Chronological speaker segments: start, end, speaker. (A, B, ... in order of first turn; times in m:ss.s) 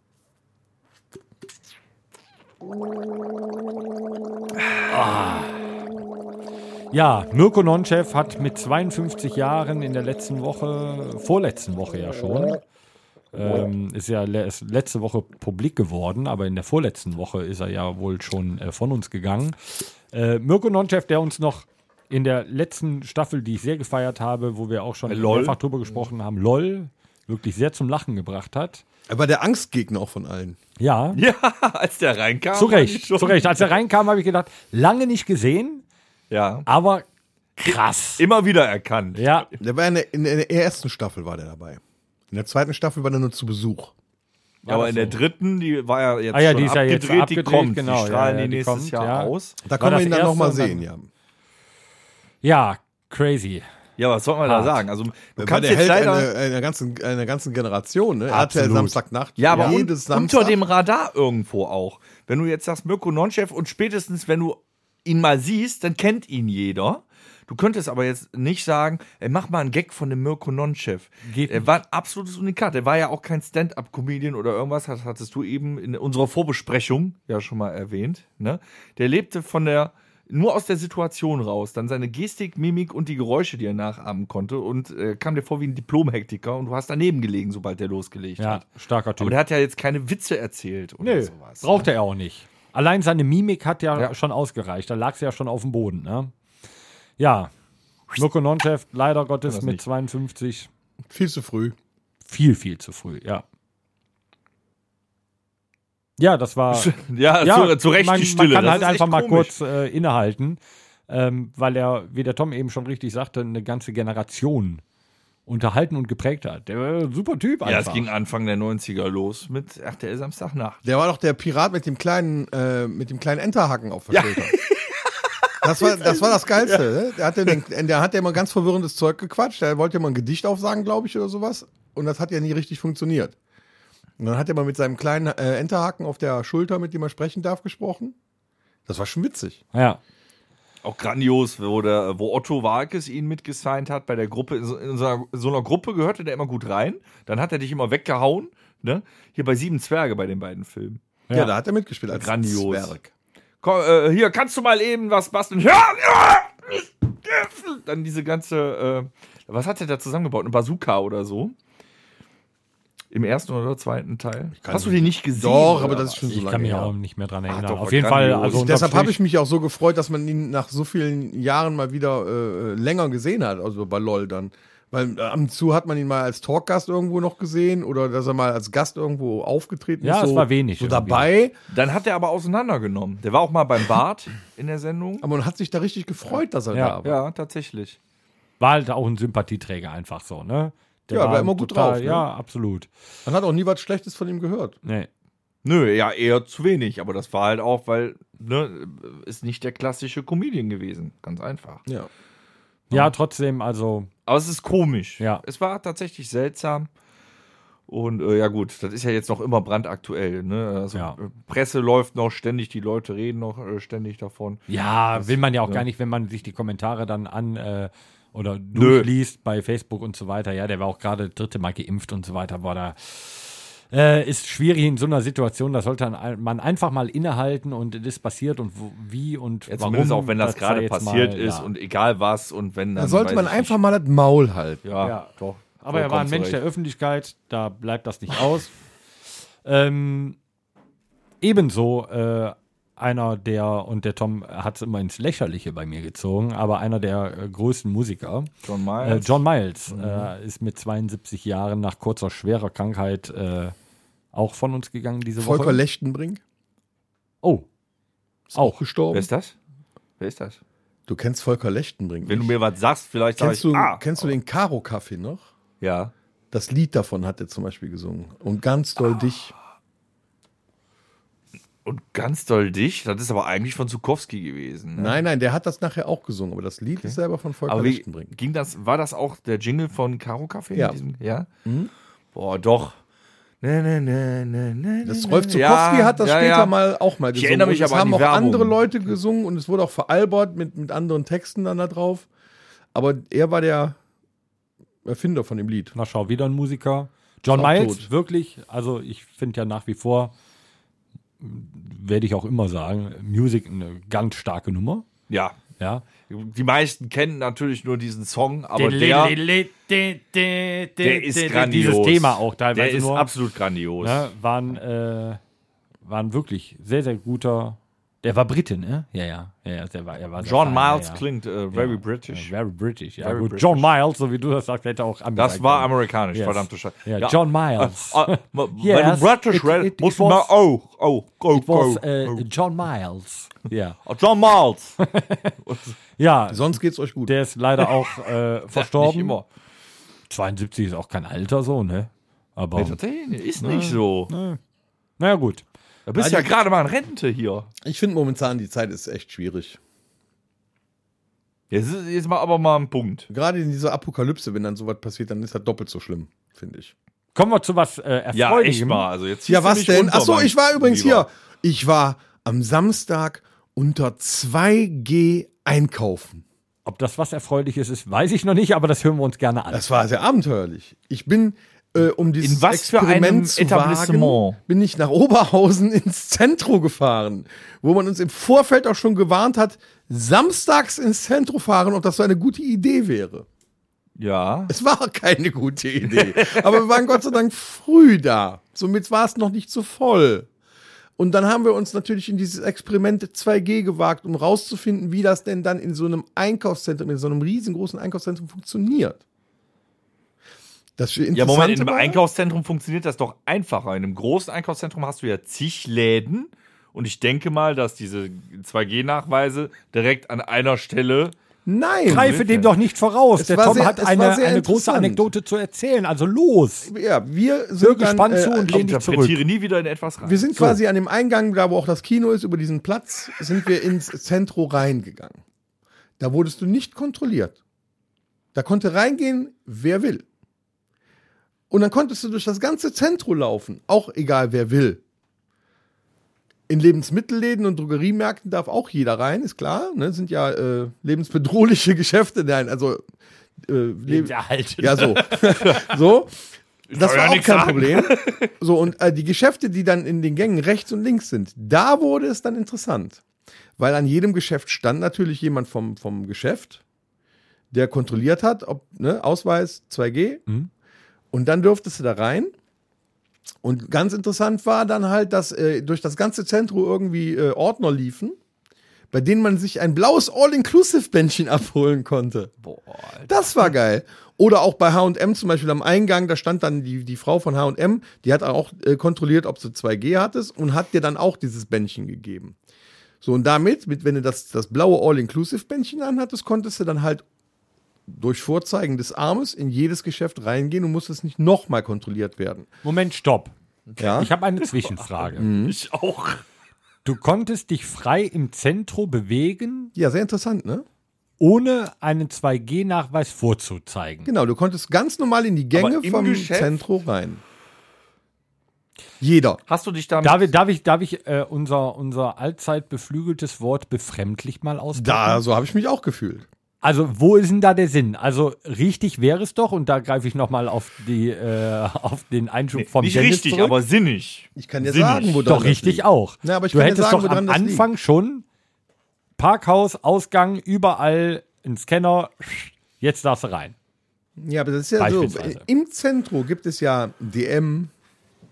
0:04.9-0:05.6 A
0:06.9-0:12.6 A
0:13.3-0:28.8 A
0:25.1-0:25.6 B
0:29.1-0:30.6 C
0:30.8-0:31.2 A
0:31.1-0:33.7 B
0:32.5-0:35.8 A
0:36.3-0:36.7 B
0:36.7-0:37.0 A
0:37.6-0:38.2 A
0:38.2-0:39.5 B
0:39.2-0:39.5 A
0:39.6-0:43.9 C
0:44.6-0:45.2 A
0:44.7-0:49.6 B
0:46.3-0:50.8 A
0:49.6-0:51.1 C
0:52.4-0:53.7 A
0:54.0-0:56.3 B
0:54.4-0:54.8 A
0:55.4-1:00.6 C
0:58.3-0:59.0 A
0:59.4-1:28.7 B
1:11.2-1:11.7 A
1:28.4-1:29.4 A
1:29.2-1:31.9 B
1:31.0-1:36.3 A
1:37.2-1:37.5 A
1:38.1-1:40.7 A
1:39.5-1:39.8 B
1:41.1-1:41.8 C
1:42.3-1:43.4 A
1:46.2-1:54.8 A
1:46.7-1:49.5 B
1:55.5-1:58.1 A
1:57.6-2:00.8 B
2:00.8-2:04.6 C
2:04.1-2:06.9 B
2:05.6-2:13.4 C
2:14.2-2:18.2 C
2:18.9-2:19.6 C
2:19.7-2:20.0 A
2:20.8-2:31.0 B
2:31.3-2:33.1 C
2:32.1-2:33.0 B
2:33.6-2:41.6 B
2:43.1-2:46.4 B
2:44.6-2:46.9 C
2:46.3-2:49.2 A
2:47.5-2:48.7 B
2:48.5-3:01.5 C
3:00.0-3:01.3 A
3:01.7-3:05.3 B
3:05.2-3:07.2 C
3:07.0-3:08.0 B
3:08.6-3:12.9 A
3:11.1-3:12.2 C
3:13.2-3:14.8 C
3:15.6-3:21.8 B
3:22.9-3:24.1 A
3:24.3-3:26.9 B
3:27.9-3:34.6 B
3:34.7-3:51.7 A
3:35.2-3:35.8 B
3:38.8-3:39.1 B
3:49.7-3:53.8 B
3:53.0-3:54.8 C
3:54.8-3:55.2 B
3:55.0-3:58.7 A
3:55.9-3:56.6 B
3:59.6-4:00.4 A
4:01.4-4:08.5 A
4:08.6-4:09.4 B
4:09.0-4:13.7 A
4:09.9-4:10.3 B
4:14.3-4:15.8 A
4:15.4-4:16.4 C
4:18.5-4:19.3 C
4:19.1-4:19.6 B
4:20.2-4:20.6 B
4:21.1-4:22.6 C
4:22.2-4:24.3 B
4:23.4-4:25.5 C
4:25.8-4:26.1 B
4:26.5-4:29.5 C
4:31.8-4:35.2 B
4:35.0-4:38.3 C
4:37.7-4:41.5 B
4:41.6-4:41.9 C
4:42.4-4:42.9 B
4:43.6-4:46.8 B
4:45.0-4:52.3 C
4:47.3-4:48.8 B
4:52.9-4:54.0 C
4:55.0-4:55.9 C
4:56.0-5:00.3 A
4:57.5-4:58.1 C
5:01.4-5:05.1 A
5:05.3-5:05.6 B
5:05.8-5:06.1 A
5:06.3-5:09.4 B
5:08.8-5:13.3 A
5:11.0-5:14.3 B
5:14.0-5:15.4 A
5:16.0-5:30.5 A
5:20.4-5:22.5 B
5:23.2-5:23.9 B
5:25.4-5:32.4 B
5:31.5-5:34.0 A
5:34.0-5:35.0 B
5:35.0-5:35.6 A
5:35.6-5:36.0 B
5:36.2-5:36.7 A
5:36.5-5:37.3 C
5:37.3-5:39.4 A
5:38.7-5:39.5 B
5:40.3-5:43.0 A
5:42.8-5:44.3 B
5:43.6-5:44.6 A
5:45.2-5:45.6 A
5:46.1-5:47.7 B
5:46.2-5:46.5 C
5:47.8-5:49.8 C
5:51.7-5:53.3 B
5:53.3-5:56.9 C
5:57.4-5:59.1 A
5:58.3-6:01.2 B
5:59.5-6:06.4 C
6:06.8-6:09.9 A
6:09.7-6:23.5 C
6:12.4-6:14.6 B
6:24.2-6:24.7 B
6:24.7-6:30.5 C
6:26.1-6:27.0 B
6:31.2-6:39.2 C
6:41.0-6:42.2 C
6:41.3-6:51.4 B
6:51.7-6:52.4 C
6:52.0-6:52.7 B
6:52.1-6:56.9 A
6:53.4-6:55.3 C
6:56.8-6:58.9 C
6:57.8-6:59.4 A
6:58.7-7:00.6 B
7:00.2-7:05.4 C
7:06.2-7:07.6 C
7:08.5-7:10.2 C
7:11.7-7:15.0 C
7:16.7-7:23.0 C
7:23.6-7:33.2 C
7:24.1-7:25.7 A
7:26.9-7:28.5 B
7:33.8-7:36.8 C
7:37.7-7:40.4 C
7:41.3-7:42.5 C
7:43.6-7:48.4 C
7:49.1-7:52.5 C
7:52.6-7:53.6 B
7:53.3-8:02.6 C
8:03.2-8:07.2 C
8:08.1-8:12.7 C
8:12.8-8:13.5 A
8:13.9-8:16.4 B
8:14.0-8:14.3 C
8:14.2-8:15.5 A
8:15.4-8:15.8 C
8:17.0-8:19.9 A
8:20.0-8:20.8 C
8:21.4-8:24.3 A
8:24.2-8:27.4 C
8:25.7-8:26.8 B
8:29.2-8:29.6 C
8:29.7-8:30.5 B
8:30.2-8:35.4 A
8:35.0-8:36.5 C
8:36.8-8:43.8 A
8:42.8-8:45.5 B
8:44.6-8:47.9 C
8:45.5-8:48.4 A
8:49.4-8:53.8 A
8:54.4-8:57.9 C
8:55.0-8:55.6 A